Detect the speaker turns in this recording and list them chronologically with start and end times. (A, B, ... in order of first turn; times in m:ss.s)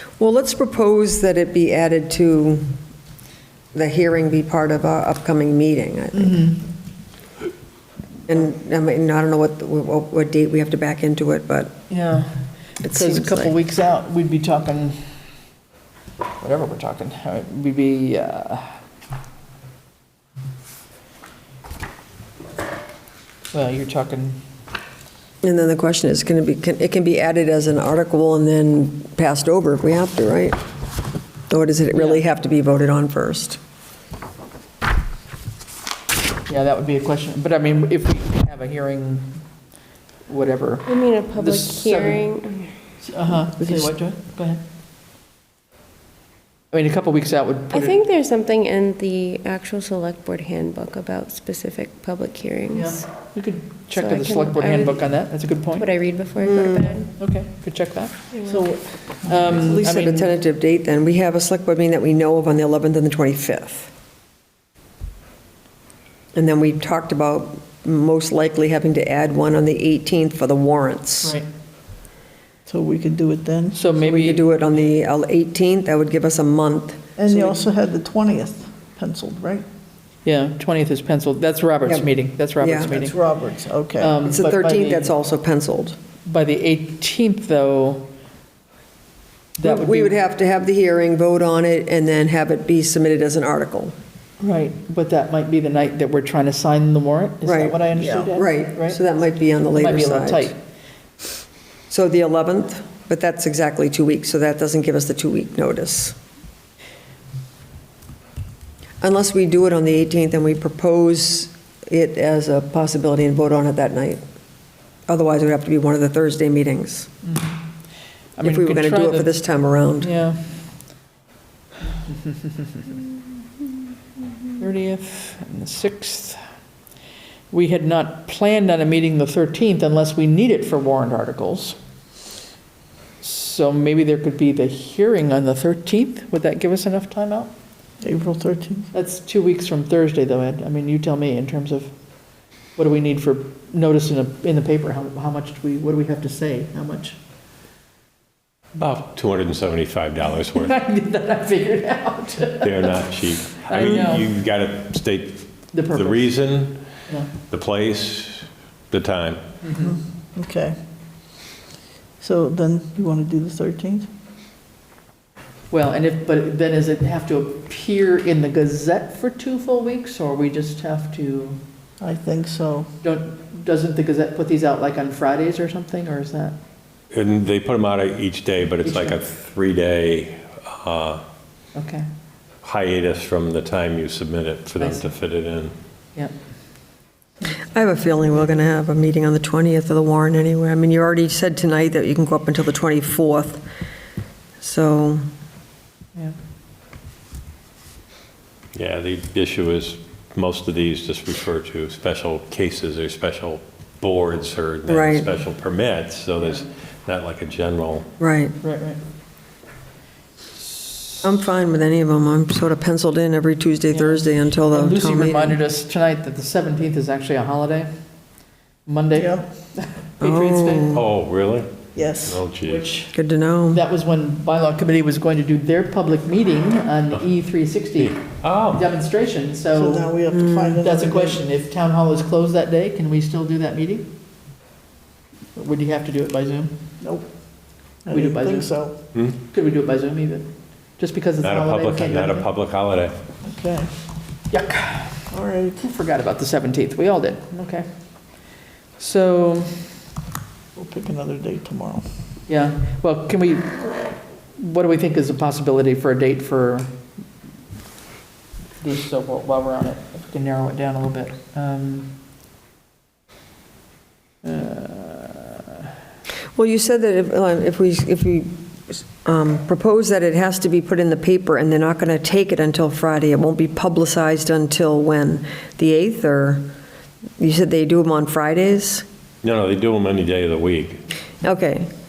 0:00.2-0:02.7 A
0:03.7-0:06.5 A
0:06.1-0:06.6 B
0:08.3-0:11.8 A
0:11.9-0:15.1 B
0:12.8-0:13.5 A
0:16.4-0:18.8 B
0:23.5-0:24.4 B
0:25.4-0:30.6 A
0:31.5-0:33.6 A
0:31.9-0:32.2 B
0:36.5-0:39.4 B
0:40.3-0:42.4 B
0:40.8-0:42.7 C
0:43.0-0:44.6 B
0:43.6-0:43.9 A
0:46.7-0:48.0 B
0:47.7-0:53.1 C
0:52.7-0:55.9 B
0:53.9-0:57.1 C
0:56.4-0:57.0 A
0:57.2-0:58.3 B
0:58.4-0:59.6 D
0:59.2-1:00.3 B
0:59.5-1:03.9 A
1:06.3-1:11.4 A
1:12.6-1:13.8 D
1:13.7-1:14.4 B
1:14.0-1:17.6 A
1:17.2-1:19.6 D
1:20.2-1:23.2 B
1:22.6-1:23.0 A
1:22.8-1:24.2 D
1:24.0-1:25.1 B
1:24.2-1:26.0 A
1:26.2-1:28.1 B
1:29.6-1:30.2 B
1:29.6-1:33.9 A
1:34.4-1:39.0 B
1:37.4-1:37.8 A
1:37.9-1:38.3 D
1:38.3-1:40.5 A
1:39.7-1:40.6 B
1:41.9-1:46.2 A
1:49.0-1:54.2 A
1:55.1-1:57.1 A
1:57.2-1:57.7 B
1:58.4-1:59.4 B
1:58.4-2:00.1 A
2:00.0-2:00.6 B
2:04.6-2:06.4 B
2:07.5-2:11.8 B
2:13.2-2:17.5 B
2:18.0-2:18.9 D
2:18.9-2:21.9 B
2:22.8-2:27.2 B
2:28.7-2:30.7 E
2:30.4-2:34.3 B
2:32.6-2:36.8 E
2:35.7-2:36.3 B
2:37.4-2:39.4 E
2:39.6-2:40.0 B
2:39.8-2:40.7 D
2:42.2-2:44.1 D
2:45.7-2:51.6 B
2:52.0-2:52.9 D
2:53.0-2:56.6 B
2:57.1-3:01.2 E
2:58.8-2:59.2 B
3:01.7-3:02.1 B
3:02.6-3:05.7 E
3:04.8-3:05.1 B
3:07.7-3:13.6 A
3:14.6-3:15.2 A
3:18.7-3:28.1 E
3:24.9-3:25.3 A
3:28.2-3:28.5 A
3:28.6-3:29.0 B
3:31.2-3:35.6 A
3:33.9-3:37.9 B
3:38.8-3:41.0 B
3:39.1-3:39.4 D
3:40.2-3:41.0 A
3:40.9-3:41.7 E
3:41.9-3:42.4 D
3:42.2-3:42.9 E
3:42.6-3:43.1 B
3:43.1-3:43.8 A
3:43.7-3:50.1 B
3:48.0-3:48.8 E
3:49.7-3:51.4 D
3:50.3-3:50.8 A
3:50.8-3:54.1 B
3:55.6-3:56.8 B
3:57.0-3:57.2 D
3:58.0-3:58.9 D
3:58.1-3:58.7 B
3:59.4-4:02.5 B
4:01.4-4:03.1 E
4:03.4-4:03.9 D
4:04.5-4:07.9 B
4:05.3-4:05.8 D
4:09.0-4:10.0 B
4:10.8-4:12.0 D
4:12.5-4:16.9 B
4:18.8-4:22.2 B
4:24.4-4:25.6 B
4:26.5-4:36.7 A
4:37.4-4:39.0 A
4:39.4-4:41.0 E
4:41.4-4:41.9 A